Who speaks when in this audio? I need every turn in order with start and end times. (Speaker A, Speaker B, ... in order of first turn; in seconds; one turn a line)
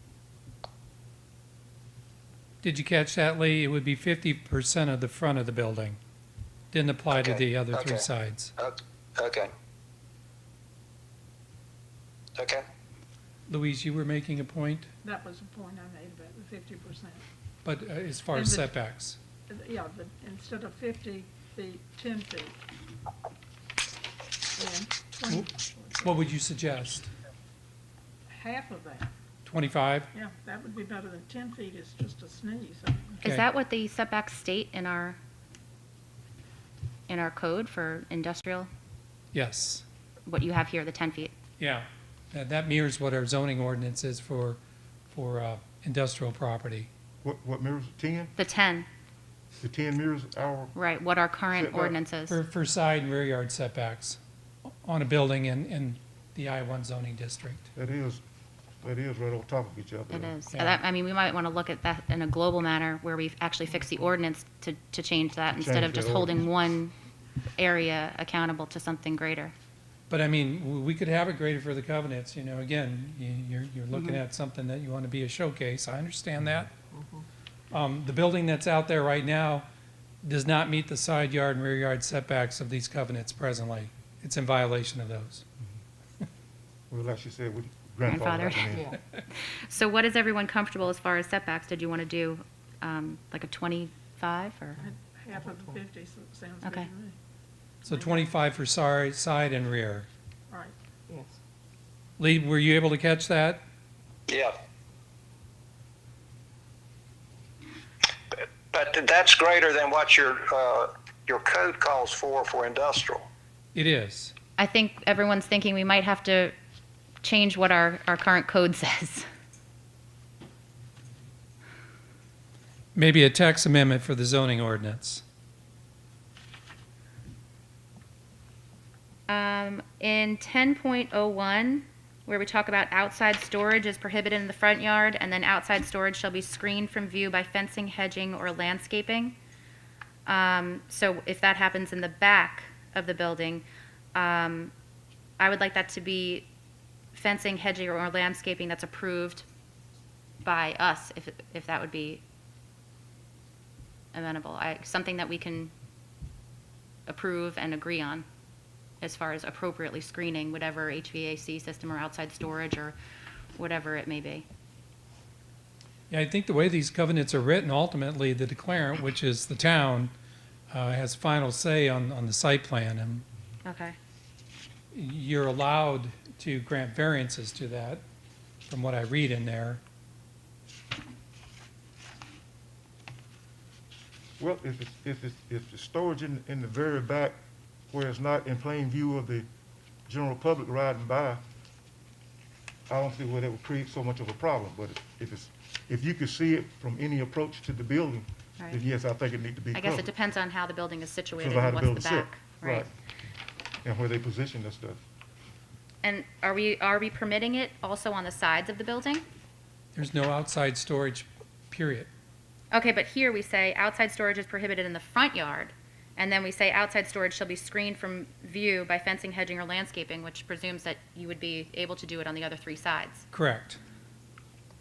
Speaker A: 2.6-6.0
Speaker A: 6.7-8.5
Speaker B: 7.1-7.9
Speaker B: 8.6-9.5
Speaker B: 12.3-12.6
Speaker A: 13.5-14.9
Speaker C: 15.0-17.2
Speaker A: 17.6-19.2
Speaker C: 18.3-18.7
Speaker C: 19.5-22.6
Speaker C: 24.6-26.2
Speaker A: 26.0-27.1
Speaker C: 28.3-29.1
Speaker A: 29.4-30.1
Speaker C: 30.1-33.3
Speaker D: 33.2-35.2
Speaker D: 37.1-38.7
Speaker A: 39.3-39.8
Speaker D: 40.2-41.3
Speaker A: 41.6-44.6
Speaker A: 45.1-46.9
Speaker E: 47.2-48.3
Speaker D: 48.4-48.9
Speaker E: 49.6-50.7
Speaker D: 50.7-52.4
Speaker E: 51.5-51.9
Speaker A: 52.3-57.6
Speaker E: 57.7-58.2
Speaker E: 58.8-60.3
Speaker D: 60.1-66.9
Speaker A: 60.5-60.8
Speaker E: 65.5-66.4
Speaker D: 67.6-69.5
Speaker A: 70.1-76.7
Speaker F: 76.9-77.2
Speaker A: 77.7-79.7
Speaker A: 80.2-85.4
Speaker E: 86.9-89.0
Speaker D: 88.0-88.8
Speaker F: 88.7-89.0
Speaker D: 89.3-94.8
Speaker F: 94.8-95.8
Speaker C: 94.8-97.2
Speaker D: 96.6-96.9
Speaker A: 97.8-100.1
Speaker C: 97.9-98.3
Speaker F: 101.1-101.4
Speaker A: 102.2-103.6
Speaker B: 104.3-104.5
Speaker B: 108.3-113.3
Speaker A: 113.7-114.3
Speaker D: 114.6-116.5
Speaker D: 117.2-119.2
Speaker A: 122.9-125.2
Speaker D: 129.3-139.3
Speaker D: 140.2-143.6
Speaker D: 144.1-144.7
Speaker D: 145.4-146.5
Speaker D: 147.1-149.4
Speaker D: 150.4-152.2
Speaker D: 154.1-155.7
Speaker D: 157.1-158.2
Speaker D: 159.0-162.9
Speaker D: 163.6-164.4
Speaker A: 166.1-170.1
Speaker A: 170.7-173.2
Speaker D: 173.6-173.9
Speaker A: 174.9-178.0
Speaker A: 178.7-179.8
Speaker E: 184.4-187.3
Speaker E: 187.9-189.5
Speaker E: 190.1-191.4
Speaker E: 192.9-200.1
Speaker D: 199.7-202.8
Speaker E: 201.4-202.9
Speaker E: 203.8-205.0
Speaker D: 206.0-209.2
Speaker A: 209.9-212.1
Speaker D: 212.7-223.2
Speaker A: 223.3-223.8